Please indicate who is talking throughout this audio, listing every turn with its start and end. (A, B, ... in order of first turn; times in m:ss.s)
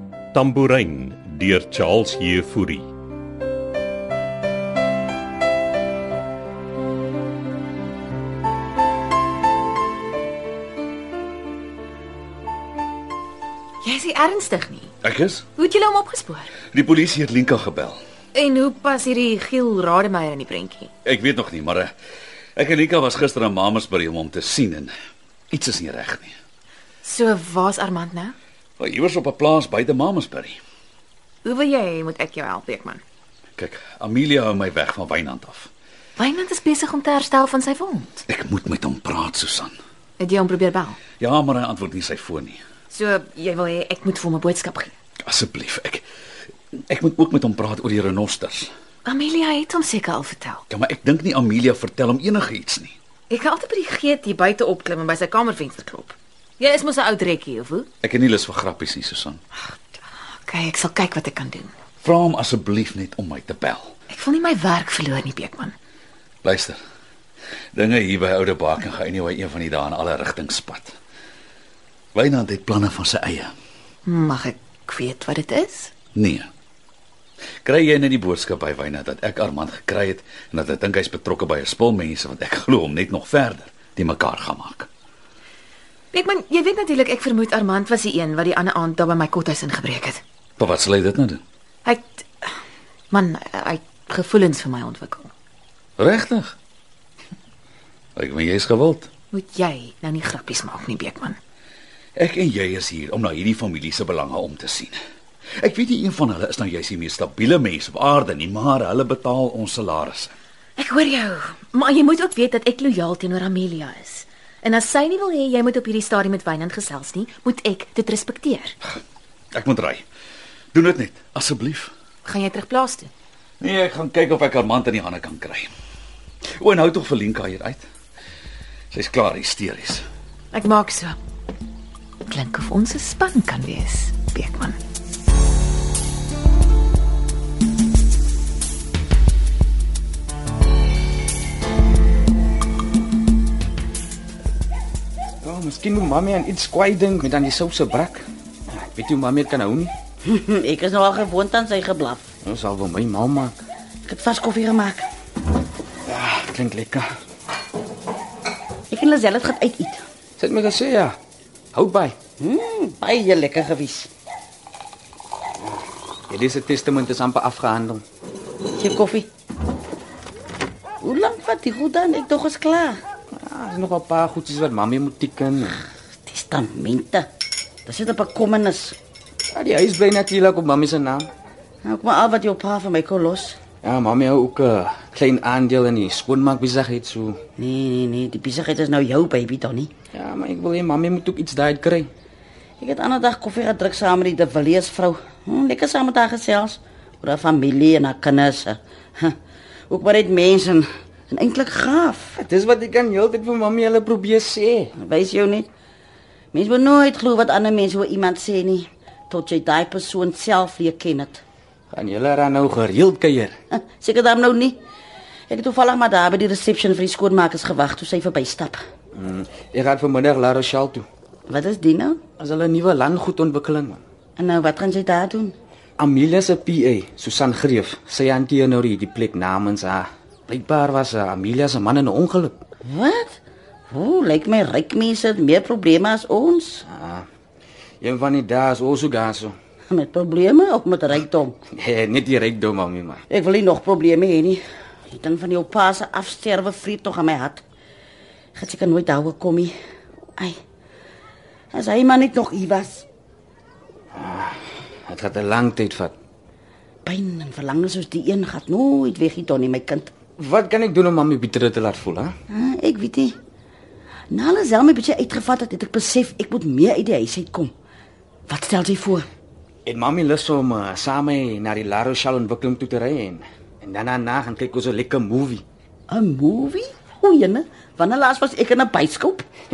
0:00.3-0:02.9 A
0:13.8-0:14.9 B
0:15.0-0:15.4 C
0:15.6-0:16.5 B
0:16.7-0:18.0 C
0:18.3-0:20.9 B
0:21.0-0:21.9 C
0:22.6-0:24.9 C
0:25.5-0:26.4 C
0:27.0-0:28.3 B
0:28.8-0:30.6 C
0:31.4-0:33.0 B
0:33.6-0:35.7 C
0:36.2-0:38.2 B
0:38.3-0:39.7 C
0:40.2-0:41.0 B
0:41.2-0:42.6 C
0:42.9-0:44.9 B
0:45.2-0:46.0 C
0:46.9-0:48.7 C
0:49.0-0:50.6 B
0:50.7-0:53.0 C
0:53.3-0:57.9 B
0:58.0-0:59.4 C
1:00.4-1:01.7 B
1:02.0-1:03.9 C
1:04.1-1:05.7 B
1:06.4-1:06.8 C
1:07.7-1:10.9 C
1:12.1-1:13.5 C
1:14.0-1:15.9 B
1:16.1-1:16.5 C
1:17.6-1:24.9 C
1:26.1-1:30.2 B
1:30.6-1:31.4 C
1:31.8-1:32.5 B
1:33.1-1:35.3 B
1:36.0-1:36.5 C
1:38.2-1:39.1 C
1:39.3-1:41.4 B
1:42.2-1:45.0 C
1:45.6-1:50.3 C
1:50.8-1:58.7 B
1:59.5-2:00.0 C
2:00.7-2:01.9 C
2:02.2-2:03.1 B
2:03.6-2:05.7 C
2:06.6-2:07.8 C
2:08.9-2:10.0 C
2:10.5-2:11.2 B
2:12.3-2:14.8 B
2:25.4-2:29.9 D
2:30.2-2:32.3 E
2:32.4-2:33.6 D
2:34.0-2:35.1 E
2:36.1-2:37.1 D
2:38.9-2:40.0 E
2:40.4-2:41.1 D
2:41.7-2:42.2 D
2:42.4-2:44.1 E
2:46.3-2:48.0 D
2:48.8-2:49.3 E
2:51.0-2:53.0 E
2:53.4-2:55.8 D
2:56.3-2:57.3 E
2:57.8-2:59.0 E
2:59.5-3:01.3 D
3:01.8-3:03.6 E
3:03.8-3:07.4 D
3:07.6-3:09.9 E
3:10.1-3:12.1 D
3:12.8-3:19.4 E
3:19.9-3:22.4 E
3:22.5-3:24.9 D
3:25.0-3:25.7 E
3:26.5-3:31.4 E
3:31.9-3:33.5 D
3:33.7-3:34.8 E
3:35.5-3:38.8 E
3:39.1-3:41.1 D
3:41.5-3:42.2 E
3:42.4-3:44.0 D
3:44.4-3:45.5 E
3:46.0-3:52.6 D
3:52.8-3:53.4 E
3:53.9-3:56.8 E
3:56.9-3:57.2 D
3:58.0-3:59.5 D
3:59.9-4:01.5 E
4:01.8-4:03.2 D
4:03.3-4:07.6 E
4:08.6-4:09.7 E
4:11.7-4:13.0 E
4:14.1-4:14.6 D
4:15.1-4:16.1 D
4:17.0-4:20.1 E
4:20.4-4:22.3 D
4:22.5-4:23.4 E
4:24.3-4:27.7 E
4:28.5-4:29.3 E
4:29.8-4:35.6 D
4:36.1-4:39.4 E